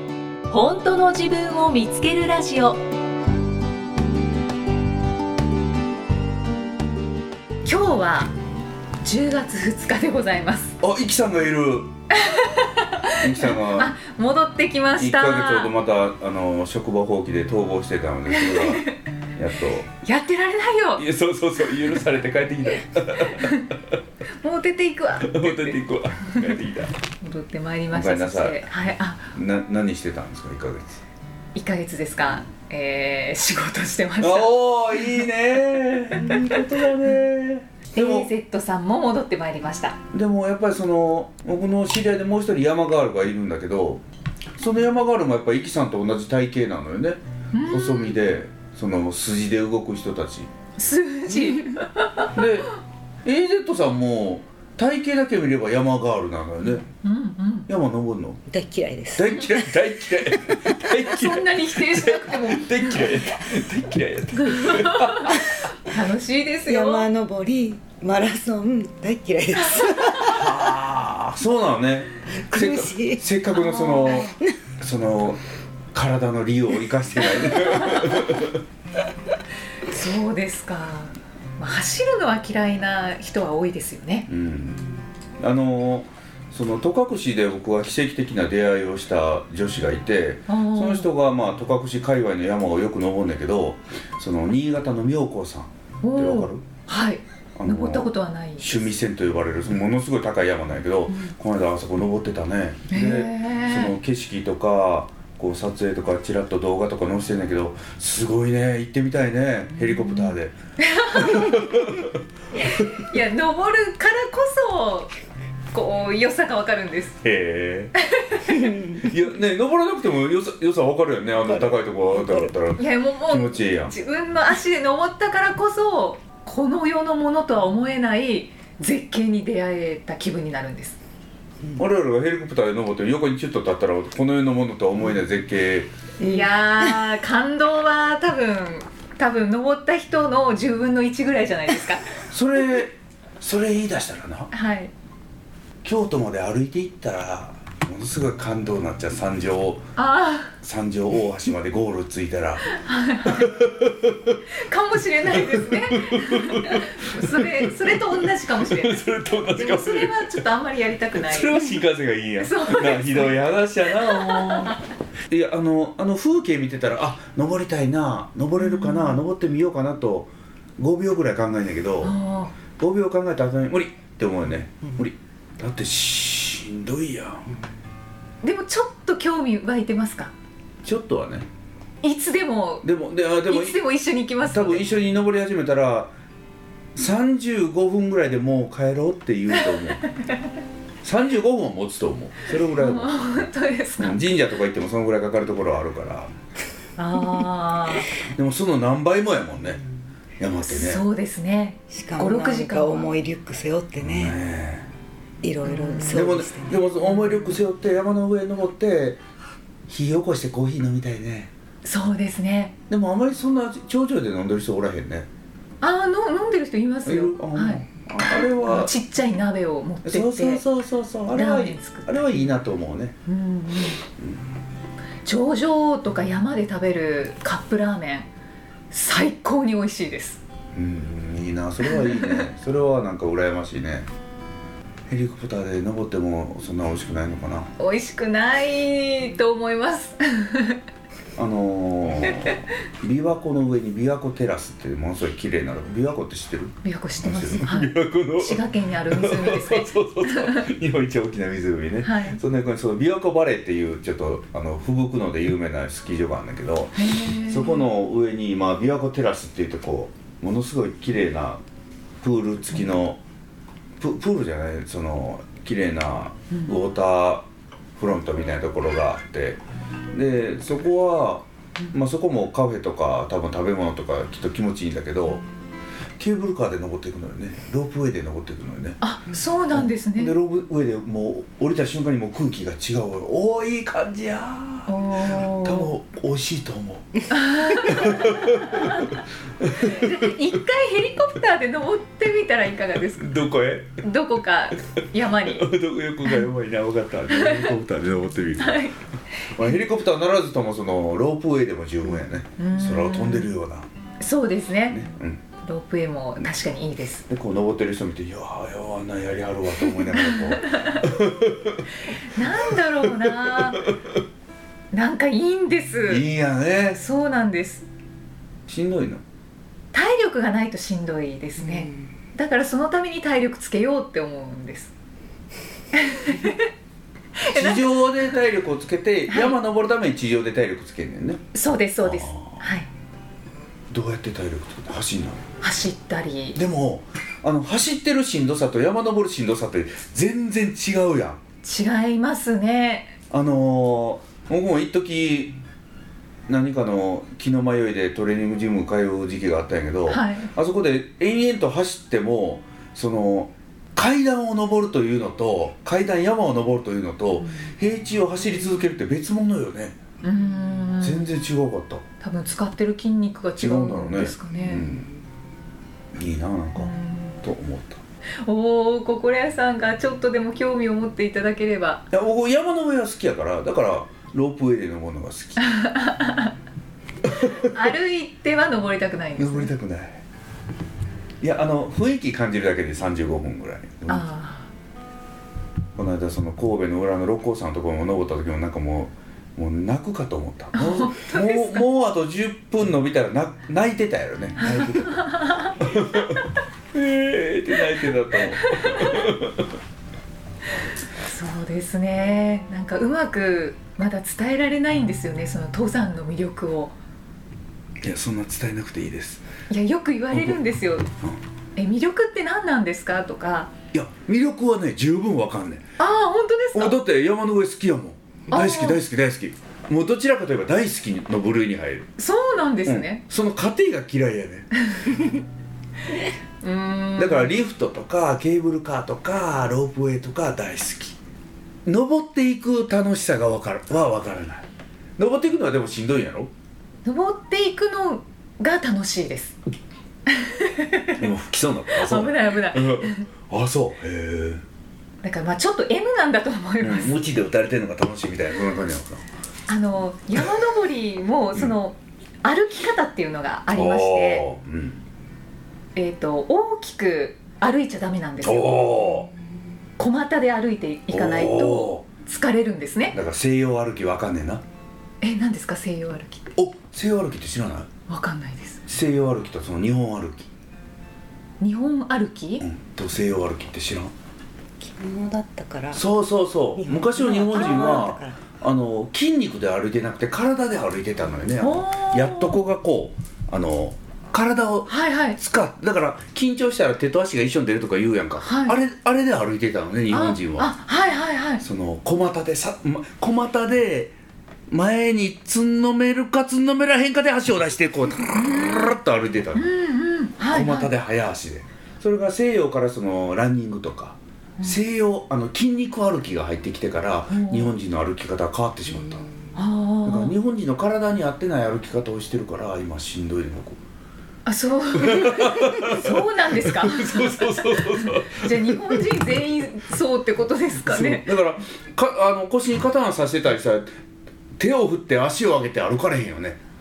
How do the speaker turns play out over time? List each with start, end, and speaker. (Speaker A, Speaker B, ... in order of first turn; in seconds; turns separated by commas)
Speaker A: 0.5-2.8, Speaker A: 7.6-8.3, Speaker A: 9.0-10.8, Speaker B: 10.8-11.9, Speaker A: 12.1-15.7, Speaker B: 13.1-13.9, Speaker B: 14.9-19.9, Speaker A: 18.3-18.9, Speaker A: 20.0-21.0, Speaker B: 21.0-23.8, Speaker A: 23.3-23.7, Speaker A: 24.4-25.8, Speaker B: 25.2-26.9, Speaker A: 27.2-29.3, Speaker B: 27.9-28.7, Speaker B: 29.3-31.0, Speaker A: 31.5-34.5, Speaker B: 34.2-38.3, Speaker A: 36.1-36.5, Speaker A: 37.9-40.0, Speaker B: 40.1-44.0, Speaker B: 44.6-50.5, Speaker A: 47.5-48.1, Speaker A: 50.8-52.3, Speaker B: 52.3-52.7, Speaker B: 53.2-56.9, Speaker A: 56.9-57.7, Speaker B: 57.7-58.4, Speaker C: 58.5-59.7, Speaker B: 59.1-65.4, Speaker C: 60.3-60.7, Speaker A: 61.0-63.1, Speaker A: 64.4-67.1, Speaker C: 66.7-70.5, Speaker B: 70.2-75.4, Speaker C: 72.4-73.2, Speaker A: 73.5-74.3, Speaker C: 74.0-74.5, Speaker B: 75.9-78.6, Speaker A: 77.8-78.1, Speaker A: 79.8-84.3, Speaker B: 84.3-96.6, Speaker A: 90.5-91.1, Speaker A: 96.0-98.9, Speaker B: 97.5-110.5, Speaker A: 102.9-103.9, Speaker A: 110.8-111.7, Speaker B: 111.1-113.0, Speaker A: 112.6-115.1, Speaker A: 115.7-117.2, Speaker B: 117.2-117.9, Speaker A: 118.0-118.7, Speaker C: 118.7-119.0, Speaker B: 119.0-123.9, Speaker C: 122.2-122.5, Speaker A: 122.8-131.0, Speaker B: 131.8-135.9, Speaker A: 136.2-142.2, Speaker B: 142.3-144.5, Speaker A: 144.5-144.9, Speaker B: 145.8-149.9, Speaker A: 150.0-150.5, Speaker B: 150.6-152.6, Speaker A: 152.7-153.5, Speaker B: 153.2-154.4, Speaker A: 154.5-161.7, Speaker B: 155.3-160.4, Speaker B: 161.1-172.2, Speaker A: 162.4-164.8, Speaker A: 168.6-169.2, Speaker A: 172.0-172.5, Speaker B: 172.8-177.5, Speaker A: 178.4-180.3, Speaker B: 180.8-181.5, Speaker A: 182.0-182.9, Speaker B: 182.8-183.8, Speaker A: 183.4-184.9, Speaker B: 184.5-186.1, Speaker B: 186.9-190.0, Speaker A: 190.1-190.4, Speaker B: 191.0-196.3, Speaker A: 192.7-194.2, Speaker A: 197.0-198.1, Speaker B: 198.3-199.8, Speaker B: 200.4-201.0, Speaker A: 200.6-203.1, Speaker C: 201.9-204.4, Speaker B: 204.0-204.9, Speaker C: 205.4-206.8, Speaker A: 205.7-206.1, Speaker B: 206.1-209.2, Speaker B: 209.9-211.5, Speaker A: 211.8-212.7, Speaker B: 212.9-215.3, Speaker A: 215.8-220.6, Speaker B: 217.0-218.9, Speaker B: 220.0-223.2, Speaker A: 221.3-222.5, Speaker A: 223.2-224.0, Speaker B: 224.2-224.5, Speaker A: 225.2-228.3, Speaker A: 228.9-230.4, Speaker B: 230.7-234.1, Speaker A: 231.9-232.4, Speaker B: 235.1-237.7, Speaker A: 237.8-240.8, Speaker B: 241.3-261.6, Speaker A: 246.8-250.6, Speaker A: 252.0-252.4, Speaker A: 256.9-257.8, Speaker B: 262.2-263.2, Speaker B: 264.0-269.6, Speaker B: 270.1-275.4, Speaker B: 276.2-279.0, Speaker A: 279.0-280.3, Speaker B: 279.7-290.3, Speaker A: 284.9-285.9, Speaker A: 287.3-289.2, Speaker A: 289.8-293.4, Speaker B: 293.1-294.0, Speaker A: 294.0-295.7, Speaker B: 295.4-298.9, Speaker A: 297.3-297.7, Speaker A: 298.6-298.9, Speaker B: 299.5-303.9, Speaker A: 302.6-303.5, Speaker A: 304.2-305.1, Speaker B: 304.9-305.4, Speaker A: 305.6-307.2, Speaker B: 307.3-311.8, Speaker A: 310.3-311.0, Speaker A: 312.1-313.9, Speaker B: 313.0-313.6, Speaker A: 314.9-316.2, Speaker B: 316.1-317.0, Speaker A: 316.9-317.9, Speaker B: 318.7-319.2, Speaker A: 319.9-324.9, Speaker A: 325.9-326.7, Speaker A: 327.4-328.3, Speaker B: 327.5-331.4, Speaker A: 329.3-329.6, Speaker A: 331.5-332.9, Speaker B: 332.0-332.6, Speaker B: 333.9-335.4, Speaker A: 335.6-336.6, Speaker B: 336.5-341.4, Speaker A: 341.6-343.1, Speaker B: 343.3-345.6, Speaker B: 346.5-360.0, Speaker A: 350.1-350.5, Speaker A: 360.2-361.3, Speaker B: 361.0-362.0, Speaker A: 362.2-364.9, Speaker B: 363.6-365.1, Speaker B: 366.1-368.0, Speaker A: 366.8-367.4, Speaker A: 368.4-372.1, Speaker B: 372.1-375.7, Speaker A: 375.7-376.5, Speaker A: 377.3-379.7, Speaker B: 379.4-380.2, Speaker B: 381.4-384.3, Speaker A: 384.1-384.7, Speaker B: 385.9-399.7, Speaker A: 390.7-391.8, Speaker A: 394.6-395.7, Speaker A: 398.6-399.3, Speaker A: 401.2-406.9, Speaker B: 408.0-409.4, Speaker A: 409.7-411.1, Speaker B: 410.3-410.6, Speaker A: 411.8-413.7, Speaker B: 413.9-415.8, Speaker A: 416.0-416.9, Speaker B: 416.7-422.1, Speaker A: 418.5-419.0, Speaker A: 422.2-423.2, Speaker B: 422.8-424.7, Speaker A: 426.6-427.5, Speaker B: 427.2-431.2, Speaker B: 431.8-436.5, Speaker A: 437.0-439.6, Speaker A: 440.3-441.2, Speaker B: 441.2-444.6, Speaker A: 441.9-443.3, Speaker A: 445.2-447.2, Speaker B: 446.8-449.2, Speaker A: 449.7-454.5, Speaker B: 453.7-455.0, Speaker A: 455.9-459.2, Speaker B: 458.4-459.3, Speaker A: 460.0-463.2, Speaker B: 461.1-462.0, Speaker B: 463.1-464.6, Speaker A: 465.2-466.5, Speaker B: 466.6-467.9, Speaker A: 468.1-468.8, Speaker B: 468.9-470.5, Speaker A: 471.6-472.6, Speaker B: 472.6-474.1, Speaker C: 474.8-476.0, Speaker B: 475.9-490.7, Speaker C: 476.8-478.4, Speaker A: 481.6-482.6, Speaker A: 484.9-485.4, Speaker A: 488.4-488.8, Speaker A: 490.1-491.6, Speaker B: 491.6-494.1, Speaker B: 494.7-499.7, Speaker A: 498.3-498.9, Speaker A: 499.5-500.9, Speaker B: 500.5-509.3, Speaker A: 507.3-507.7, Speaker A: 509.5-510.3, Speaker B: 510.0-513.8, Speaker A: 514.4-521.3, Speaker B: 514.9-519.2, Speaker B: 520.8-523.9, Speaker B: 524.6-526.6